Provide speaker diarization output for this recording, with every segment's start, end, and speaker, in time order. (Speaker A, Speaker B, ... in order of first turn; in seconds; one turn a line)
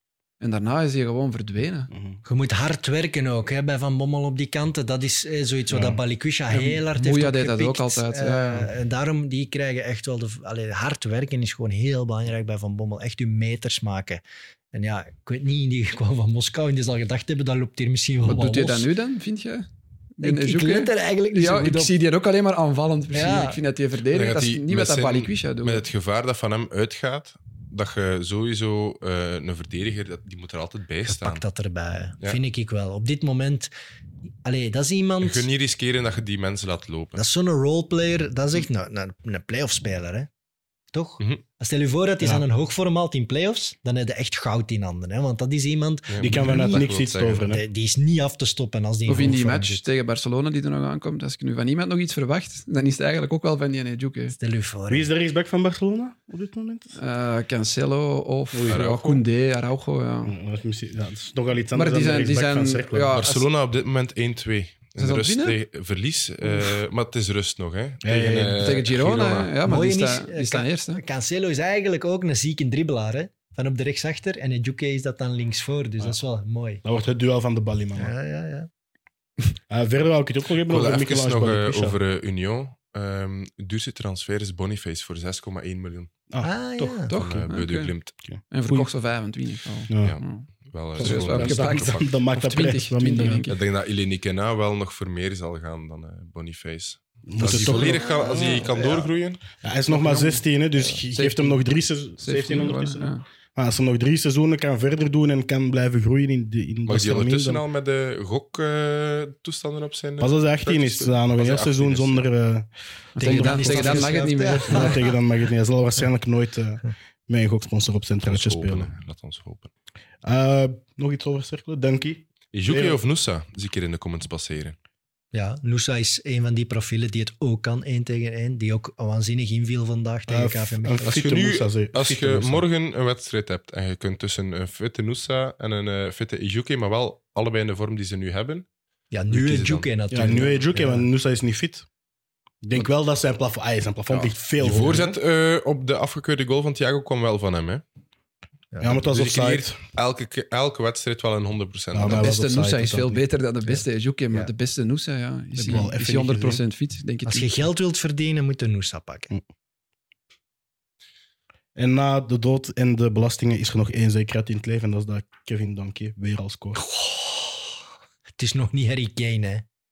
Speaker A: 0.4-1.9
Speaker B: 1.9-2.2
Speaker C: 2.2-14.2
Speaker B: 5.7-6.0
Speaker A: 6.5-8.7
Speaker C: 14.7-18.9
Speaker A: 18.2-19.7
Speaker A: 20.2-25.8
Speaker C: 20.2-21.9
Speaker C: 23.1-23.6
Speaker D: 24.1-31.4
Speaker C: 31.1-33.7
Speaker C: 34.4-35.5
Speaker D: 35.2-37.2
Speaker C: 37.2-40.3
Speaker C: 40.9-46.9
Speaker D: 46.1-47.5
Speaker B: 46.2-47.6
Speaker C: 47.5-49.9
Speaker A: 49.0-54.4
Speaker C: 54.3-55.1
Speaker B: 54.9-57.0
Speaker A: 57.0-60.4
Speaker B: 58.5-58.8
Speaker D: 58.7-59.2
Speaker B: 60.3-63.2
Speaker A: 61.7-63.5
Speaker D: 63.1-69.5
Speaker A: 65.0-65.6
Speaker B: 68.0-68.8
Speaker A: 68.6-71.0
Speaker C: 69.6-76.8
Speaker B: 76.8-78.2
Speaker C: 78.0-78.7
Speaker B: 79.7-82.0
Speaker D: 80.7-86.1
Speaker B: 86.3-87.0
Speaker C: 86.4-87.1
Speaker A: 87.1-88.0
Speaker D: 87.1-88.2
Speaker B: 88.2-88.9
Speaker A: 88.5-90.5
Speaker B: 89.9-90.2
Speaker D: 90.0-92.0
Speaker B: 91.0-93.5
Speaker A: 91.0-93.6
Speaker D: 93.5-99.4
Speaker B: 97.3-107.6
Speaker A: 99.9-100.5
Speaker A: 101.1-101.6
Speaker A: 102.2-103.2
Speaker D: 106.9-112.2
Speaker B: 110.2-118.9
Speaker A: 113.2-115.1
Speaker C: 113.2-115.1
Speaker D: 118.3-119.7
Speaker B: 120.2-123.0
Speaker D: 122.5-124.8
Speaker C: 125.3-131.2
Speaker B: 130.3-132.7
Speaker D: 131.1-138.7
Speaker C: 139.1-141.1
Speaker D: 139.3-139.9
Speaker B: 140.1-141.9
Speaker B: 142.6-145.2
Speaker D: 144.6-147.8
Speaker C: 148.7-149.1
Speaker B: 148.8-149.8
Speaker D: 149.0-152.3
Speaker B: 151.9-153.2
Speaker A: 152.1-157.6
Speaker C: 153.7-154.5
Speaker B: 155.6-156.6
Speaker C: 157.2-159.3
Speaker B: 161.8-166.8
Speaker C: 166.8-167.8
Speaker C: 168.4-169.7